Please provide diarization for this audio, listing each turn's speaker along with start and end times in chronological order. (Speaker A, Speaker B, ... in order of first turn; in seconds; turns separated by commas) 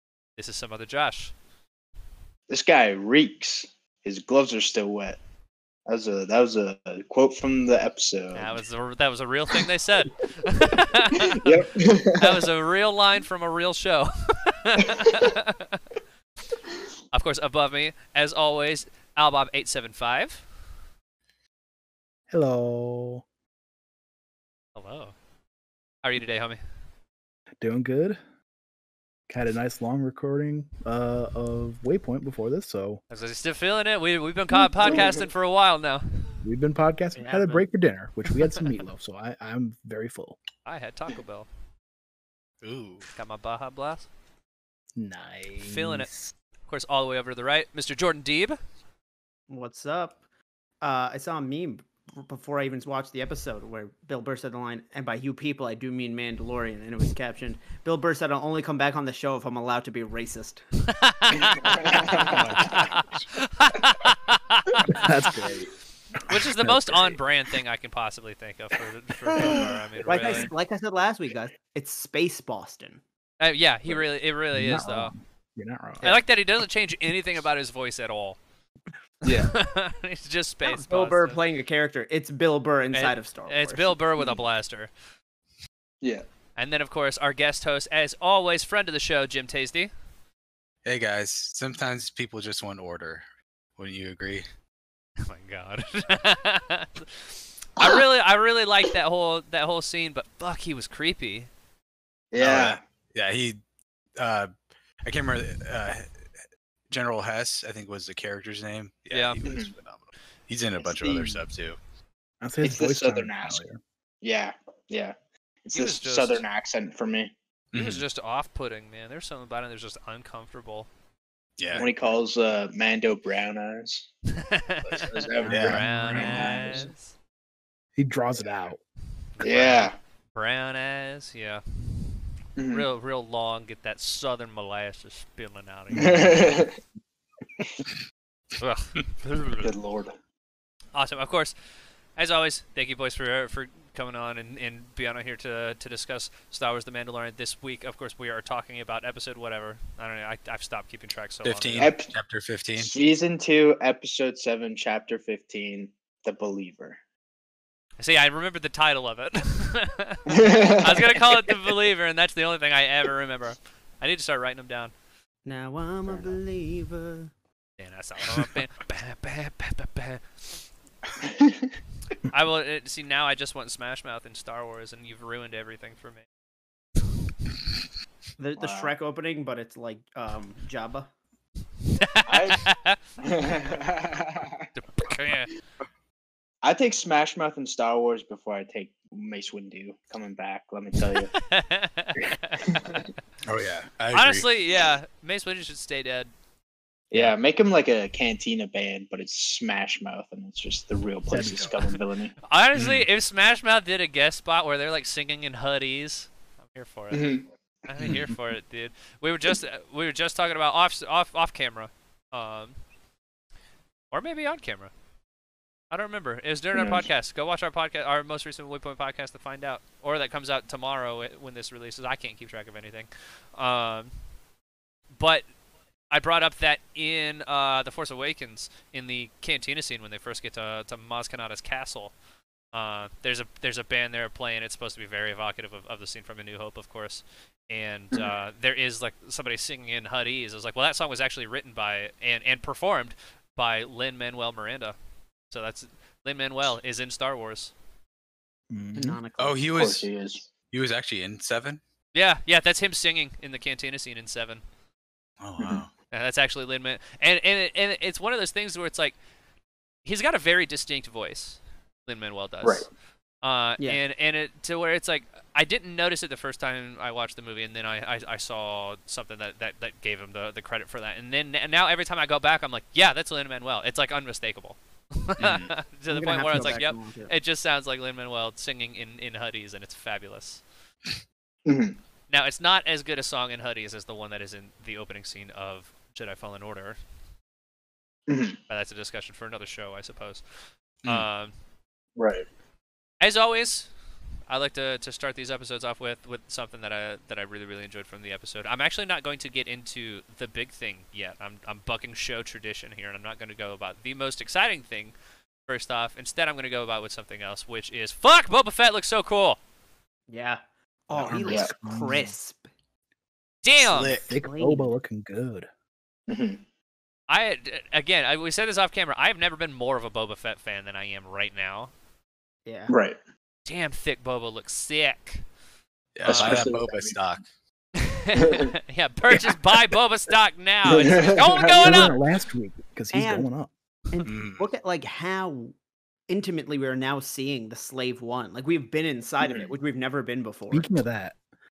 Speaker A: 0.4-1.3, Speaker B: 2.5-5.2, Speaker B: 5.8-8.6, Speaker A: 8.3-15.8, Speaker B: 11.0-12.4, Speaker A: 17.1-20.4, Speaker C: 22.3-23.2, Speaker A: 24.7-25.1, Speaker A: 26.0-26.6, Speaker C: 27.6-28.2, Speaker C: 29.3-33.0, Speaker A: 33.1-36.4, Speaker C: 34.7-35.1, Speaker B: 34.9-35.2, Speaker C: 36.4-40.4, Speaker D: 37.1-37.6, Speaker A: 40.6-41.5, Speaker E: 42.6-43.1, Speaker A: 43.1-44.1, Speaker C: 44.9-46.3, Speaker A: 45.6-46.1, Speaker A: 46.7-48.6, Speaker D: 49.5-50.2, Speaker D: 50.8-60.6, Speaker A: 60.9-65.5, Speaker B: 61.3-62.1, Speaker D: 62.1-62.4, Speaker C: 62.2-62.9, Speaker C: 64.8-65.7, Speaker C: 66.2-67.2, Speaker A: 66.2-70.5, Speaker B: 69.3-69.8, Speaker D: 70.0-73.0, Speaker A: 73.4-75.1, Speaker C: 74.5-76.1, Speaker A: 76.0-78.4, Speaker B: 79.2-79.5, Speaker A: 79.3-81.4, Speaker D: 80.6-84.0, Speaker A: 82.9-84.9, Speaker A: 86.6-89.9, Speaker E: 90.8-93.2, Speaker E: 93.8-94.4, Speaker A: 95.2-101.5, Speaker B: 102.3-102.8, Speaker E: 102.3-103.6, Speaker E: 104.2-104.5, Speaker E: 105.0-106.1, Speaker E: 106.9-111.8, Speaker A: 109.1-109.4, Speaker B: 109.4-109.7, Speaker B: 110.8-111.4, Speaker C: 112.4-113.8, Speaker B: 112.6-113.6, Speaker B: 114.2-117.3, Speaker A: 115.7-116.4, Speaker E: 117.7-118.0, Speaker A: 117.7-120.9, Speaker E: 121.6-121.9, Speaker B: 121.7-124.1, Speaker A: 124.3-127.1, Speaker B: 124.9-126.8, Speaker C: 125.4-126.9, Speaker E: 125.5-125.8, Speaker C: 128.0-128.8, Speaker A: 129.4-131.6, Speaker B: 129.4-130.0, Speaker B: 132.6-132.9, Speaker A: 132.7-136.6, Speaker B: 135.9-136.8, Speaker A: 138.6-139.7, Speaker B: 139.6-140.1, Speaker A: 140.9-141.5, Speaker A: 142.2-151.9, Speaker E: 151.4-152.9, Speaker B: 151.8-152.1, Speaker B: 152.8-157.0, Speaker A: 158.0-164.9, Speaker B: 160.3-161.3, Speaker D: 165.4-167.3, Speaker B: 166.1-166.3, Speaker A: 167.8-170.6, Speaker B: 171.2-171.7, Speaker A: 172.2-176.2, Speaker D: 178.4-181.1, Speaker B: 178.6-178.9, Speaker A: 181.9-183.0, Speaker B: 182.2-184.7, Speaker A: 184.7-185.5, Speaker B: 186.6-191.3, Speaker A: 191.2-193.0, Speaker B: 192.6-193.1, Speaker E: 193.4-194.5, Speaker A: 194.1-196.3, Speaker B: 197.1-202.3, Speaker C: 201.3-201.8, Speaker A: 202.4-207.3, Speaker E: 202.7-203.1, Speaker B: 207.1-207.4, Speaker A: 207.8-212.8, Speaker C: 208.1-208.3, Speaker A: 214.1-214.9, Speaker A: 215.9-224.1, Speaker B: 216.7-217.1, Speaker A: 225.2-225.4, Speaker A: 226.1-232.1, Speaker A: 232.7-244.9, Speaker A: 245.5-247.7, Speaker C: 248.7-249.2, Speaker D: 248.9-249.6, Speaker E: 249.4-250.1, Speaker B: 249.7-250.5, Speaker E: 250.7-251.8, Speaker A: 252.1-254.6, Speaker E: 255.4-255.9, Speaker B: 255.6-255.8, Speaker A: 256.1-259.1, Speaker A: 260.0-262.9, Speaker B: 262.6-262.9, Speaker A: 263.4-280.6, Speaker E: 275.4-275.7, Speaker D: 276.1-277.3, Speaker B: 281.6-281.9, Speaker A: 282.3-287.0, Speaker B: 288.3-288.6, Speaker A: 288.7-290.4, Speaker A: 291.0-291.5, Speaker B: 292.2-292.4, Speaker A: 293.2-293.9, Speaker A: 294.5-305.1, Speaker A: 305.7-309.6, Speaker D: 310.3-312.7, Speaker C: 311.1-312.3, Speaker B: 311.4-311.7, Speaker A: 313.6-314.2, Speaker E: 313.8-314.3, Speaker C: 314.2-315.7, Speaker D: 314.4-314.9, Speaker B: 316.3-316.6, Speaker A: 317.3-321.9, Speaker D: 322.6-322.9, Speaker B: 322.9-323.2, Speaker A: 323.6-325.4, Speaker E: 326.1-327.4, Speaker B: 326.2-327.2, Speaker A: 328.0-332.2, Speaker B: 328.4-328.7, Speaker B: 330.9-331.7, Speaker C: 330.9-333.7, Speaker D: 333.1-333.5, Speaker D: 334.1-335.7, Speaker E: 334.2-334.7, Speaker D: 336.3-340.9, Speaker B: 339.4-339.7, Speaker C: 340.7-341.3